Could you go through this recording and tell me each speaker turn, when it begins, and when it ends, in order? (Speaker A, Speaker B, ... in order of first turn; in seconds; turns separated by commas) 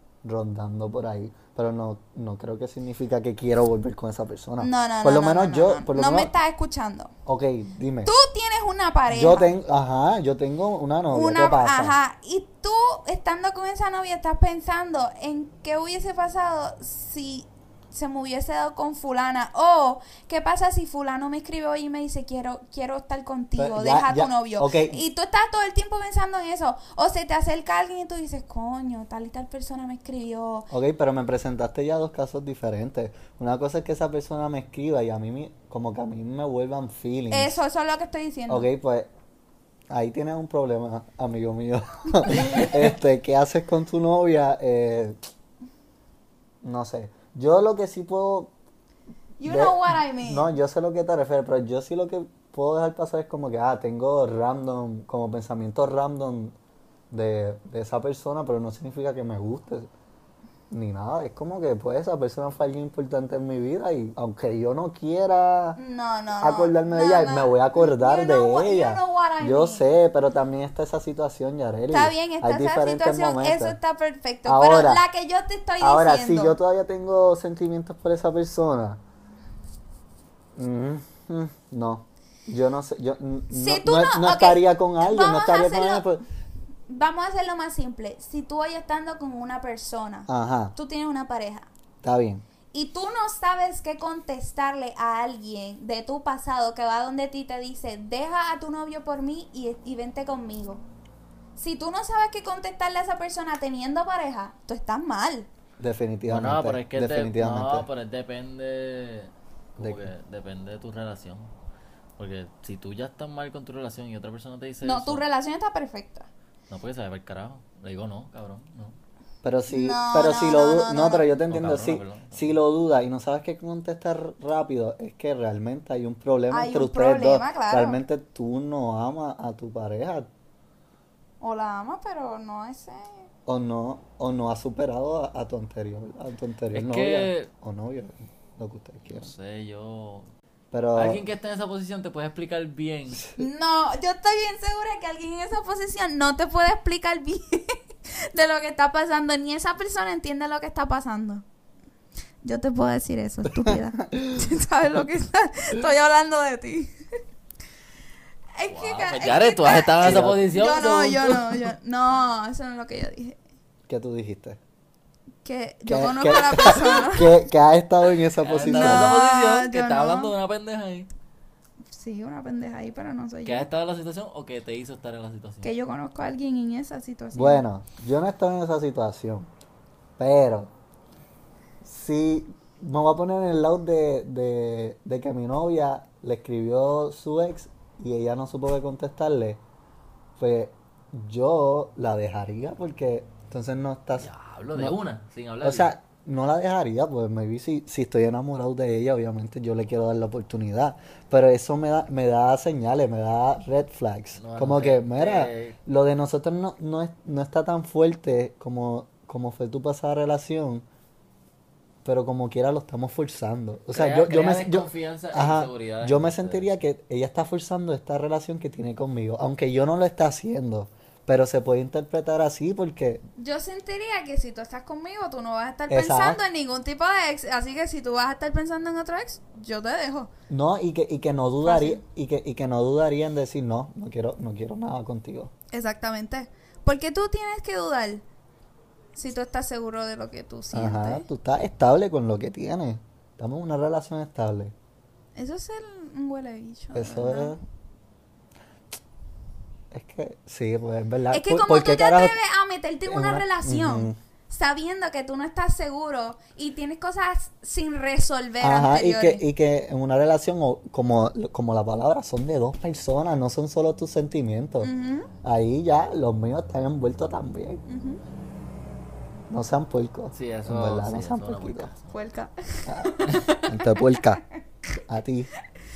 Speaker A: 0.2-6.3, Speaker B: 4.6-7.1, Speaker A: 7.2-8.1, Speaker B: 8.0-9.5, Speaker A: 9.1-11.9, Speaker B: 11.1-30.7, Speaker A: 23.6-25.0, Speaker A: 30.7-37.6, Speaker B: 37.3-38.7, Speaker A: 38.5-39.1, Speaker A: 39.9-45.1, Speaker A: 46.6-48.5, Speaker B: 49.4-50.5, Speaker A: 49.4-56.5, Speaker A: 57.1-59.9, Speaker A: 60.7-65.8, Speaker B: 65.8-69.9, Speaker A: 66.4-73.8, Speaker B: 71.9-76.6, Speaker A: 74.4-75.0, Speaker A: 75.8-79.0, Speaker A: 80.5-86.2, Speaker B: 83.5-86.0, Speaker B: 86.9-91.7, Speaker A: 90.3-90.7, Speaker A: 92.0-92.4, Speaker B: 92.7-100.8, Speaker B: 101.6-105.5, Speaker A: 105.8-107.9, Speaker C: 106.3-111.5, Speaker A: 109.8-110.1, Speaker C: 112.2-115.2, Speaker B: 114.8-116.3, Speaker C: 116.7-119.0, Speaker A: 119.4-130.3, Speaker B: 119.7-121.3, Speaker C: 121.5-122.5, Speaker B: 126.5-128.0, Speaker B: 131.4-133.2, Speaker A: 133.4-139.3, Speaker C: 136.7-137.5, Speaker C: 139.1-140.3, Speaker A: 140.7-141.2, Speaker C: 140.9-143.2, Speaker A: 143.2-143.4, Speaker B: 143.3-151.4, Speaker B: 152.4-157.0, Speaker A: 153.5-154.4, Speaker B: 158.6-163.4, Speaker C: 158.7-161.7, Speaker A: 160.0-160.4, Speaker A: 163.9-164.6, Speaker B: 165.4-167.3, Speaker A: 165.8-169.2, Speaker C: 168.4-171.1, Speaker B: 168.6-170.3, Speaker B: 171.9-173.7, Speaker C: 173.4-175.7, Speaker B: 175.6-177.6, Speaker A: 177.3-179.5, Speaker A: 180.2-180.7, Speaker A: 181.8-189.6, Speaker A: 190.4-195.0, Speaker C: 194.2-195.9, Speaker A: 195.6-210.8, Speaker C: 204.4-205.8, Speaker A: 212.0-223.2, Speaker C: 213.9-216.7, Speaker B: 223.4-230.3, Speaker A: 225.9-226.4, Speaker A: 230.5-235.5, Speaker B: 231.6-232.0, Speaker B: 235.7-238.2, Speaker B: 239.1-241.2, Speaker A: 240.7-244.7, Speaker B: 245.3-247.6, Speaker A: 246.9-247.6, Speaker A: 249.9-252.3, Speaker B: 251.3-259.4, Speaker A: 253.1-254.2, Speaker A: 258.6-264.9, Speaker B: 264.8-265.3, Speaker A: 265.4-267.8, Speaker B: 267.9-268.2, Speaker A: 269.5-271.9, Speaker C: 270.3-272.2, Speaker B: 272.1-274.3, Speaker A: 272.9-274.4, Speaker A: 275.1-275.5